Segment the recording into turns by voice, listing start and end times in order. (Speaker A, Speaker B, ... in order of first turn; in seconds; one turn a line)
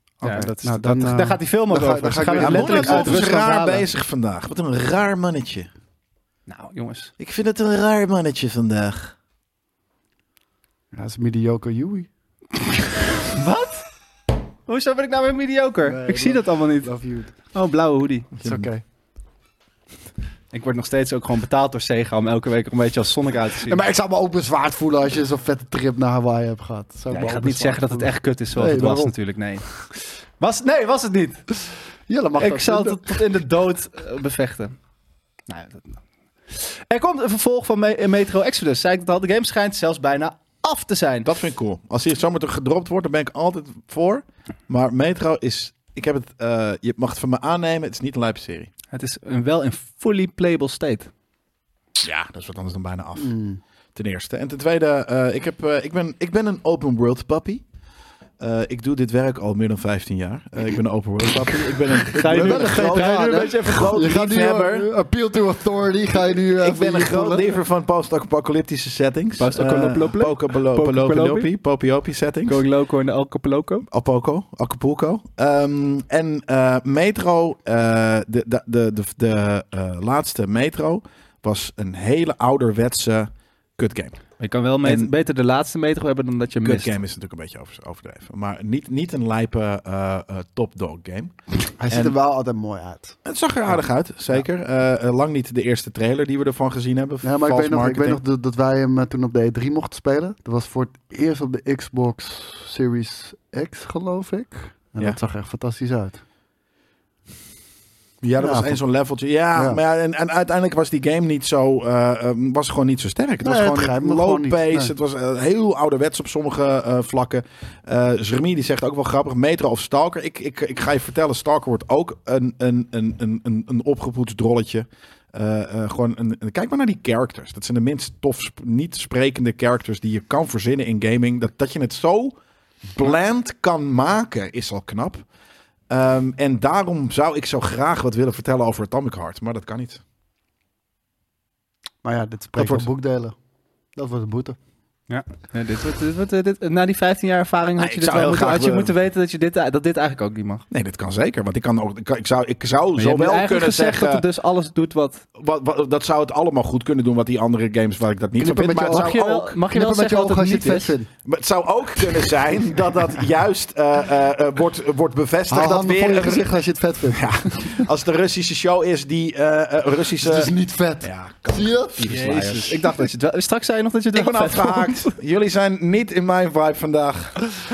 Speaker A: 0.2-3.4
Speaker B: 0.2-3.9
Speaker C: 2.4-5.7
Speaker B: 6.5-7.1
Speaker C: 7.2-9.1
Speaker A: 10.9-12.1
Speaker B: 13.2-13.8
Speaker B: 14.7-16.9
Speaker A: 15.8-17.3
Speaker B: 17.5-18.3
Speaker C: 18.4-18.7
Speaker A: 18.4-18.8
Speaker B: 20.5-23.8
Speaker A: 23.7-29.1
Speaker B: 27.1-31.5
Speaker A: 32.1-33.2
Speaker B: 32.4-34.8
Speaker B: 35.5-36.0
Speaker B: 36.5-41.3
Speaker C: 41.2-48.7
Speaker B: 48.9-51.1
Speaker C: 52.0-53.4
Speaker A: 53.2-53.6
Speaker C: 53.9-57.6
Speaker C: 58.4-64.9
Speaker B: 62.1-64.2
Speaker A: 62.3-67.5
Speaker C: 66.4-72.6
Speaker B: 69.4-71.5
Speaker B: 72.5-73.9
Speaker C: 73.9-84.2
Speaker B: 84.4-86.9
Speaker C: 84.8-85.1
Speaker C: 86.6-91.4
Speaker A: 91.8-93.2
Speaker C: 91.9-92.1
Speaker C: 93.2-98.2
Speaker A: 97.2-106.2
Speaker C: 108.2-132.4
Speaker A: 108.4-108.8
Speaker A: 113.4-114.9
Speaker C: 132.9-135.2
Speaker C: 135.9-140.0
Speaker A: 142.0-143.3
Speaker C: 142.6-142.9
Speaker A: 143.9-144.6
Speaker B: 145.1-150.6
Speaker C: 147.8-148.9
Speaker C: 150.7-154.2
Speaker B: 153.0-155.2
Speaker C: 155.3-159.6
Speaker A: 158.4-161.1
Speaker B: 158.8-160.9
Speaker C: 161.2-166.5
Speaker A: 165.5-167.8
Speaker C: 167.1-170.5
Speaker A: 170.2-172.1
Speaker C: 171.0-172.8
Speaker B: 172.1-175.1
Speaker C: 174.1-177.4